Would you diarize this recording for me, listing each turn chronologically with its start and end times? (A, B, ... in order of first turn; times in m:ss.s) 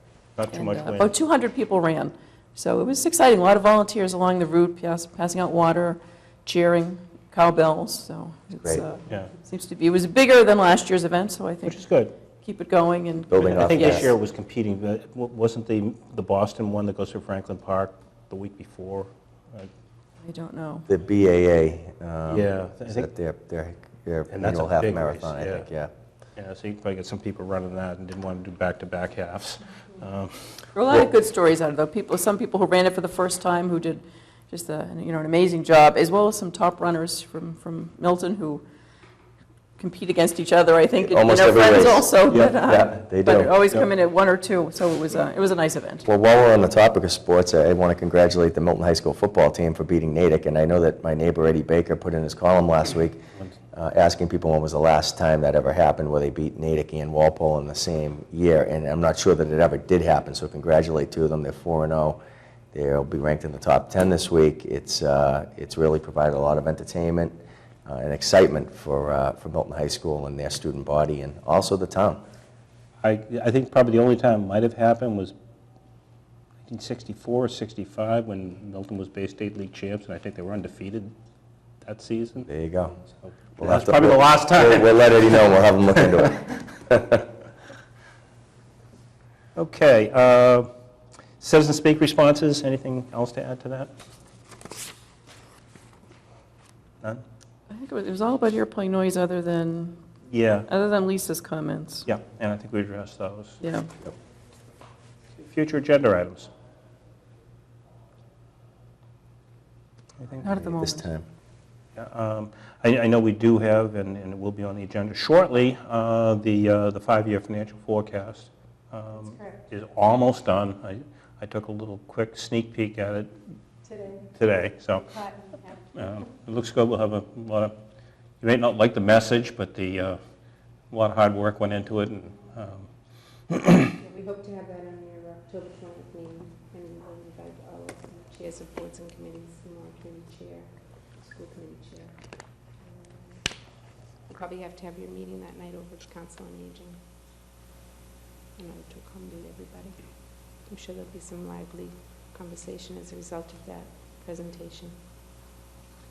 0:00.4-0:01.1 A
0:00.5-0:11.8 B
0:11.6-0:12.1 A
0:12.4-0:14.1 B
0:13.3-0:14.1 C
0:13.4-0:19.7 A
0:20.2-0:20.9 B
0:20.9-0:25.9 C
0:22.3-0:23.1 A
0:24.3-0:25.6 A
0:26.4-0:30.5 A
0:30.7-0:38.6 B
0:39.8-0:46.0 B
0:41.0-0:43.5 C
0:42.3-0:42.5 A
0:46.0-0:53.2 C
0:53.7-1:02.2 C
1:02.7-1:07.3 C
1:07.8-1:12.2 C
1:13.0-1:15.3 A
1:16.6-1:21.1 A
1:21.8-1:22.5 A
1:22.5-1:23.0 C
1:23.2-1:26.2 A
1:23.6-1:27.2 C
1:29.6-1:30.7 A
1:31.4-1:33.9 A
1:37.7-1:40.0 B
1:40.3-1:40.7 A
1:40.7-1:42.1 B
1:42.0-1:43.6 A
1:43.6-1:43.9 B
1:45.4-1:46.5 A
1:50.2-1:50.5 A
1:50.4-1:51.1 B
1:50.4-1:51.2 C
1:51.9-2:03.3 A
2:03.9-2:04.2 D
2:04.3-2:05.2 A
2:05.2-2:05.8 D
2:05.9-2:07.8 A
2:08.4-2:10.2 A
2:10.9-2:12.9 A
2:13.5-2:13.9 A
2:14.0-2:23.6 D
2:24.2-2:27.0 D
2:28.6-2:35.0 D